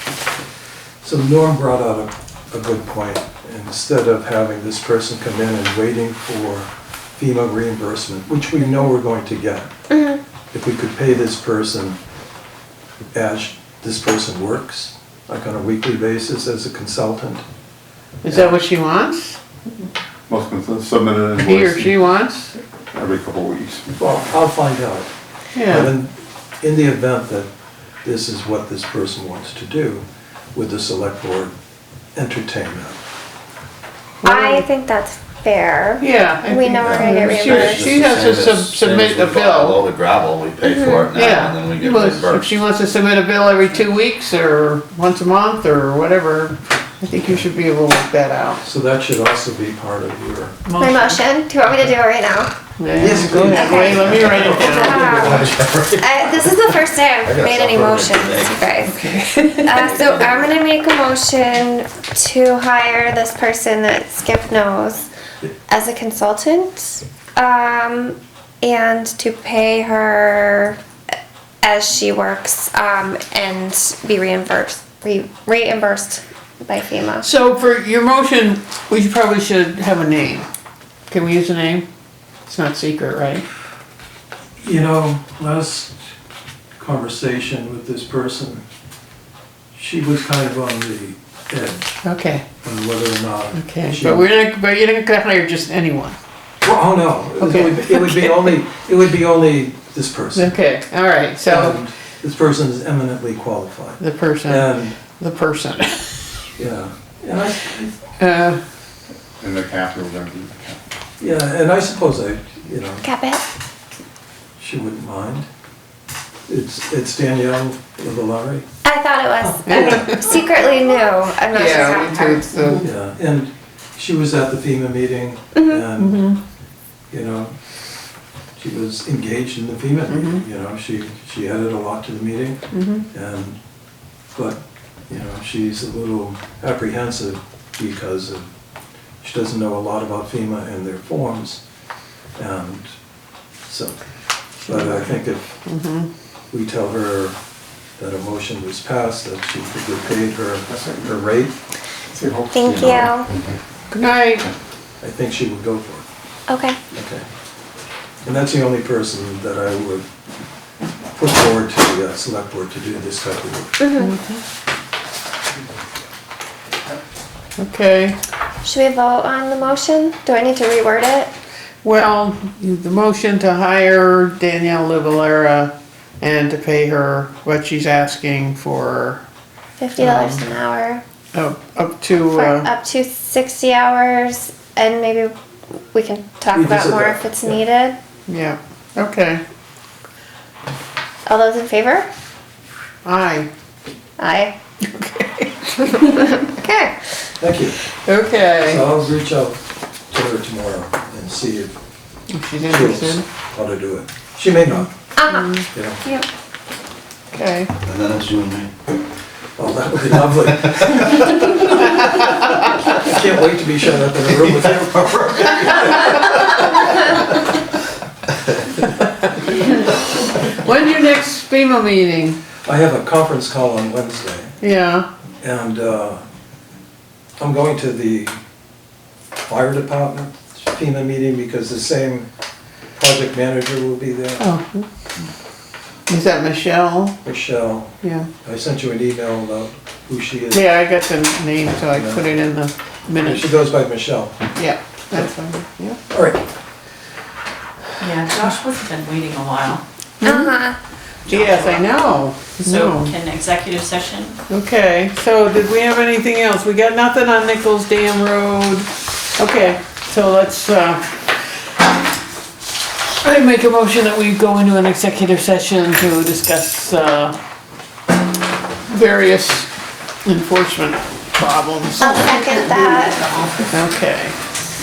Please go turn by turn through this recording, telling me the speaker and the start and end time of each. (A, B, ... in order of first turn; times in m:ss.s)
0:01.0-0:09.7 A
0:09.9-0:10.2 B
0:10.5-0:12.0 A
0:13.1-0:17.4 A
0:18.2-0:19.4 C
0:18.3-0:18.6 A
0:20.3-0:22.1 D
0:21.4-0:22.5 C
0:22.9-0:23.9 D
0:24.0-0:25.1 A
0:25.6-0:25.9 C
0:25.7-0:27.5 A
0:28.0-0:31.5 A
0:32.2-0:33.0 A
0:34.2-0:34.7 C
0:34.2-0:38.0 B
0:36.0-0:39.8 C
0:36.8-0:42.6 E
0:40.7-0:41.1 B
0:41.1-0:48.6 C
0:48.6-0:50.6 A
0:50.7-0:51.2 C
0:50.8-0:52.5 B
0:52.8-0:55.1 C
0:53.0-0:55.8 A
0:53.4-0:59.0 B
0:54.2-0:56.6 E
0:57.2-1:00.6 E
0:58.9-0:59.6 C
0:59.6-1:05.1 B
1:05.7-1:10.8 B
1:11.6-1:17.2 B
1:17.2-1:20.5 C
1:21.1-1:21.9 C
1:22.5-1:23.5 C
1:24.6-1:26.0 A
1:26.8-1:28.6 A
1:29.7-1:31.9 A
1:32.0-1:32.4 C
1:32.6-1:34.3 A
1:33.5-1:36.2 C
1:36.6-1:40.5 A
1:37.4-1:38.5 C
1:40.4-1:41.8 C
1:41.5-1:45.0 A
1:44.0-1:46.2 C
1:46.6-1:47.9 A
1:48.2-1:48.6 C
1:49.4-1:50.8 D
1:51.2-1:53.0 A
1:53.0-1:53.4 B
1:54.6-1:55.5 A
1:56.5-1:58.7 A
1:58.8-2:02.5 B
1:59.4-2:00.3 A
1:59.7-2:00.5 C
2:01.5-2:02.9 C
2:02.8-2:06.2 A
2:05.6-2:05.8 B
2:06.0-2:06.4 C
2:07.1-2:07.6 A
2:08.6-2:13.6 A
2:10.1-2:10.4 C
2:12.7-2:13.1 C
2:14.4-2:18.5 A
2:19.2-2:21.6 A
2:22.4-2:22.9 A
2:23.7-2:24.0 A
2:24.7-2:25.6 A
2:24.7-2:25.1 C
2:25.6-2:26.1 C
2:26.5-2:27.4 A
2:28.0-2:31.5 A
2:32.1-2:33.5 D
2:32.5-2:33.3 B
2:33.9-2:34.5 C
2:35.0-2:36.0 A
2:36.5-2:36.8 B
2:36.9-2:37.2 A
2:38.2-2:40.0 A
2:41.2-2:43.8 A
2:43.8-2:44.1 B
2:44.0-2:44.4 C
2:47.6-2:48.2 C
2:48.6-2:51.3 B
2:51.8-2:59.2 C
2:59.8-3:01.0 B
3:00.0-3:00.4 C
3:01.3-3:02.7 C
3:02.3-3:05.3 B
3:05.9-3:08.0 B
3:06.5-3:07.6 A
3:08.3-3:09.4 C
3:11.3-3:12.1 B
3:13.0-3:13.5 C
3:14.2-3:14.6 B
3:14.8-3:16.2 C
3:16.0-3:17.1 B
3:17.4-3:17.8 A
3:18.0-3:18.8 C
3:18.6-3:19.6 A
3:20.1-3:21.7 A
3:22.3-3:23.2 C
3:22.7-3:24.9 A
3:25.2-3:26.3 B
3:25.3-3:25.6 C
3:25.7-3:26.0 A
3:27.3-3:27.7 C
3:27.8-3:28.7 E
3:29.6-3:36.3 A
3:35.0-3:35.4 E
3:36.2-3:36.5 E
3:40.3-3:42.4 C
3:42.6-3:44.5 A
3:44.6-3:45.1 C
3:45.4-3:46.2 A
3:47.4-3:48.4 A
3:49.5-3:52.3 A
3:53.0-3:54.5 A
3:54.4-3:54.9 C
3:56.1-3:57.2 C
3:57.2-3:57.9 A
3:58.0-3:58.3 C
3:58.4-4:00.7 A
4:00.5-4:03.5 C
4:01.9-4:02.3 A
4:03.2-4:04.4 A
4:04.6-4:06.0 C
4:06.1-4:06.4 A
4:08.0-4:09.8 F
4:10.2-4:10.6 C
4:10.2-4:10.8 B
4:11.3-4:11.9 F
4:11.3-4:13.2 C
4:12.6-4:14.4 F
4:14.5-4:21.4 C
4:23.2-4:27.4 C
4:28.9-4:29.7 C
4:30.2-4:32.2 C
4:32.0-4:33.2 B
4:32.1-4:33.7 F
4:33.7-4:34.4 C